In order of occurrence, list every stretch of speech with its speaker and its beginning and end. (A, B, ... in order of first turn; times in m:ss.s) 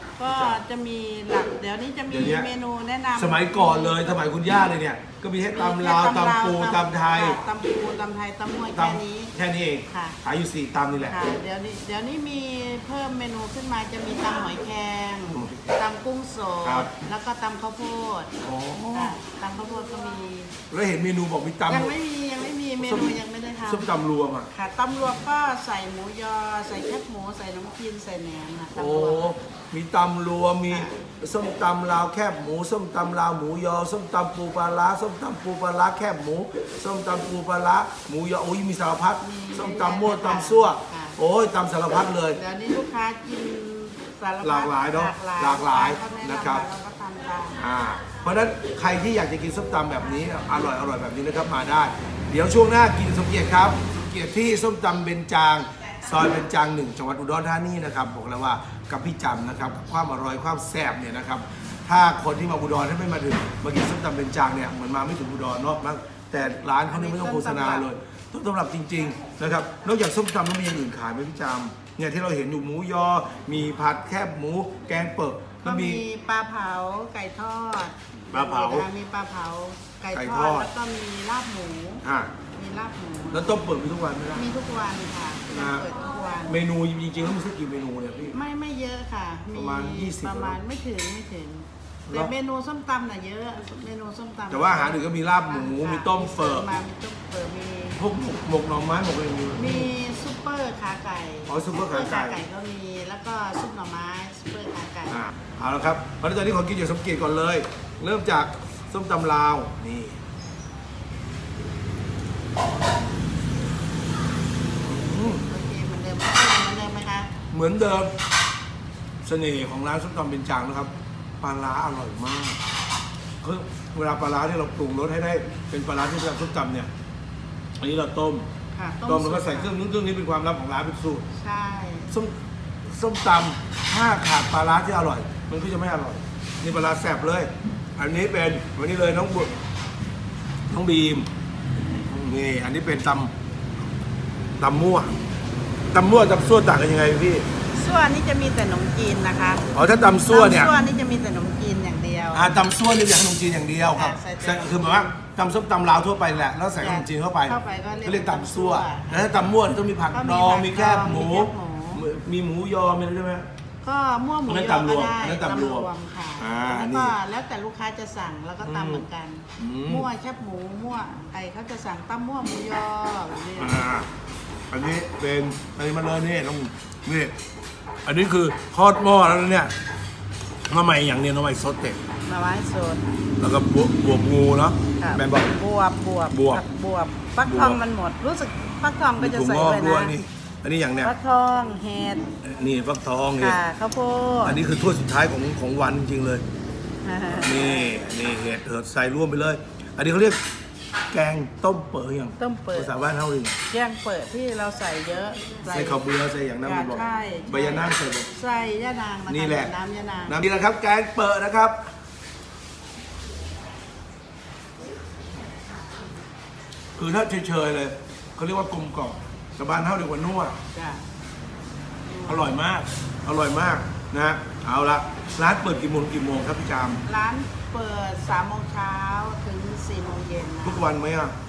0:00.2-0:04.2 A
0:00.2-0:00.6 B
0:02.1-0:02.5 B
0:03.2-0:07.4 B
0:05.5-0:09.3 A
0:08.7-0:11.2 B
0:09.9-0:10.2 A
0:11.0-0:18.3 A
0:15.3-0:15.7 B
0:16.6-0:16.9 B
0:18.4-0:19.2 B
0:18.9-0:20.5 A
0:20.7-0:21.9 B
0:21.7-0:23.9 A
0:22.8-0:24.5 B
0:24.5-0:29.3 A
0:28.7-0:42.4 B
0:30.7-0:31.0 A
0:39.2-0:41.2 A
0:42.3-0:47.6 A
0:44.4-0:46.6 B
0:47.6-1:16.0 B
1:06.8-1:07.9 A
1:15.6-1:23.7 A
1:18.3-1:18.9 B
1:20.1-1:20.7 B
1:22.0-1:22.3 B
1:23.3-1:24.4 B
1:24.3-1:26.6 A
1:25.5-1:25.9 B
1:26.4-1:28.4 B
1:28.3-1:38.0 A
1:29.5-1:30.6 B
1:34.5-1:36.7 B
1:38.0-1:39.9 B
1:39.5-1:45.2 A
1:41.5-1:42.4 B
1:45.1-1:50.2 B
1:54.8-1:55.4 B
1:55.0-1:57.3 A
1:57.5-1:58.1 B
1:59.2-2:02.6 B
2:03.4-2:06.9 B
2:07.8-2:08.5 B
2:08.7-2:09.7 A
2:09.1-2:11.3 B
2:11.3-2:12.1 A
2:12.1-2:19.5 B
2:20.7-2:21.3 B
2:21.9-2:23.3 B
2:24.6-2:25.1 B
2:25.9-2:27.4 B
2:27.7-2:32.6 A
2:29.7-2:30.7 B
2:32.3-2:43.5 B
2:33.9-2:35.1 A
2:36.8-2:39.3 A
2:40.1-2:42.1 A
2:43.8-2:53.9 A
2:44.5-2:47.1 B
2:48.6-2:49.0 B
2:49.6-2:50.1 B
2:53.6-2:54.1 B
2:54.7-2:57.3 B
2:58.0-2:59.7 B
3:00.6-3:02.0 B
3:02.2-3:03.1 A
3:03.4-3:05.5 B
3:05.0-3:10.2 A
3:06.3-3:06.6 B
3:07.4-3:07.8 B
3:09.2-3:11.1 B
3:11.0-3:12.3 A
3:12.4-3:13.6 B
3:13.4-3:14.6 A
3:14.4-3:16.4 B
3:17.0-3:18.0 A
3:17.4-3:20.4 B
3:21.1-3:23.6 B
3:22.4-3:22.9 A
3:23.7-3:26.0 A
3:25.6-3:28.3 B
3:26.6-3:30.4 A
3:29.3-3:29.7 B
3:30.3-3:31.8 B
3:37.0-3:40.6 B
3:40.7-3:41.0 A
3:42.0-3:42.6 A
3:42.3-3:47.0 B
3:47.0-3:50.9 A
3:50.6-3:51.3 B